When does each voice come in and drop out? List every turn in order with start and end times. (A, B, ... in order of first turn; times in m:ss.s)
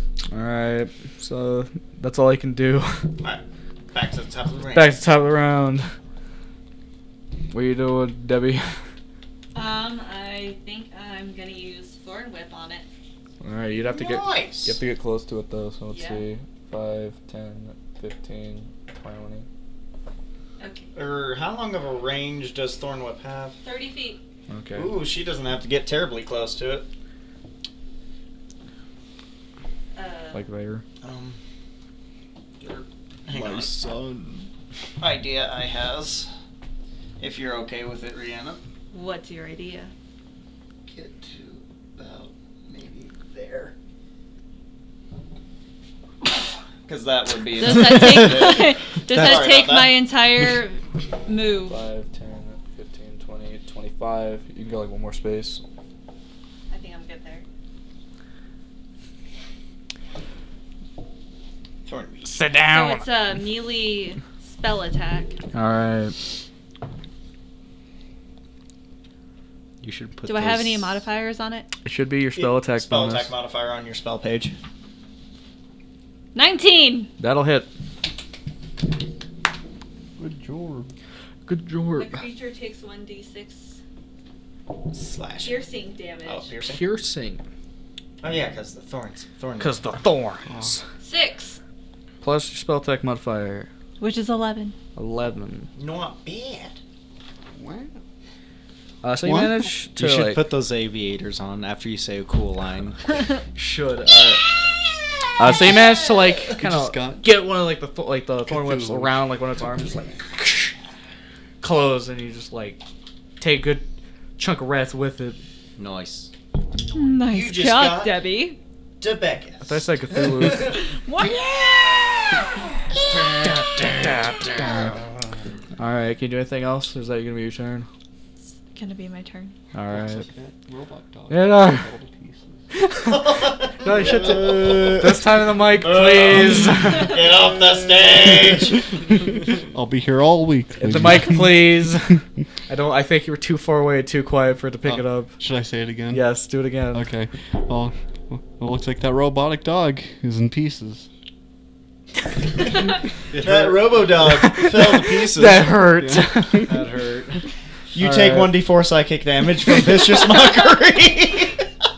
0:00.3-0:03.0 A
0:03.9-0:05.0 B
0:04.7-0:05.9 A
0:07.5-0:08.6 A
0:09.5-0:12.8 C
0:13.4-0:19.5 A
0:13.9-0:14.8 B
0:15.9-0:16.2 C
0:20.6-0:20.8 C
0:20.9-0:23.6 B
0:23.6-0:24.2 C
0:24.5-0:25.0 A
0:24.7-0:26.8 B
0:30.0-0:30.4 C
0:30.3-0:30.8 A
0:31.0-0:31.4 B
0:32.6-0:33.7 B
0:33.3-0:34.5 D
0:35.0-0:36.3 B
0:37.2-0:38.6 B
0:38.9-0:39.9 C
0:41.1-0:42.1 B
0:41.2-0:43.7 D
0:42.7-0:43.7 B
0:46.8-0:50.0 B
0:47.6-0:51.8 C
0:47.6-0:48.5 D
0:51.7-0:55.6 A
0:56.7-0:57.4 C
1:01.9-1:02.3 B
1:02.2-1:03.1 A
1:02.7-1:05.3 C
1:05.5-1:06.2 A
1:09.8-1:10.9 D
1:10.2-1:11.7 C
1:11.8-1:13.3 A
1:12.4-1:14.5 B
1:16.3-1:17.1 C
1:17.2-1:17.7 A
1:20.2-1:20.9 E
1:21.5-1:22.2 A
1:22.0-1:23.8 C
1:24.9-1:25.6 B
1:25.4-1:26.5 C
1:26.2-1:26.8 B
1:26.6-1:27.4 A
1:28.2-1:29.8 B
1:29.6-1:30.8 A
1:30.4-1:30.7 E
1:31.0-1:31.6 C
1:32.2-1:33.7 A
1:34.0-1:34.8 C
1:34.9-1:35.7 A
1:35.8-1:36.8 B
1:37.6-1:38.0 E
1:39.0-1:40.5 A
1:39.2-1:39.7 E
1:40.0-1:43.2 D
1:43.6-1:44.4 A
1:45.4-1:50.7 A
1:46.5-1:47.3 E
1:48.5-1:49.2 E
1:51.6-1:52.8 A
1:53.4-1:53.8 A
1:54.4-1:55.4 A
1:55.8-1:56.3 D
1:56.9-1:58.6 C
1:57.2-1:58.2 B
1:59.0-1:59.8 B
1:59.6-2:00.8 A
2:00.6-2:01.6 C
2:03.3-2:04.9 A
2:05.8-2:07.9 A
2:08.7-2:09.5 C
2:09.7-2:10.2 A
2:09.9-2:12.6 E
2:11.3-2:11.8 A
2:12.7-2:13.3 A
2:13.1-2:18.9 B
2:13.8-2:17.2 A
2:18.9-2:21.6 E
2:20.8-2:25.3 A
2:24.9-2:26.2 E
2:26.1-2:27.0 A
2:26.9-2:31.1 E
2:33.3-2:34.1 D
2:33.4-2:35.6 B
2:34.3-2:36.7 A
2:35.0-2:35.7 D
2:35.9-2:36.7 E
2:36.6-2:37.4 D
2:37.9-2:41.6 B
2:38.0-2:38.6 A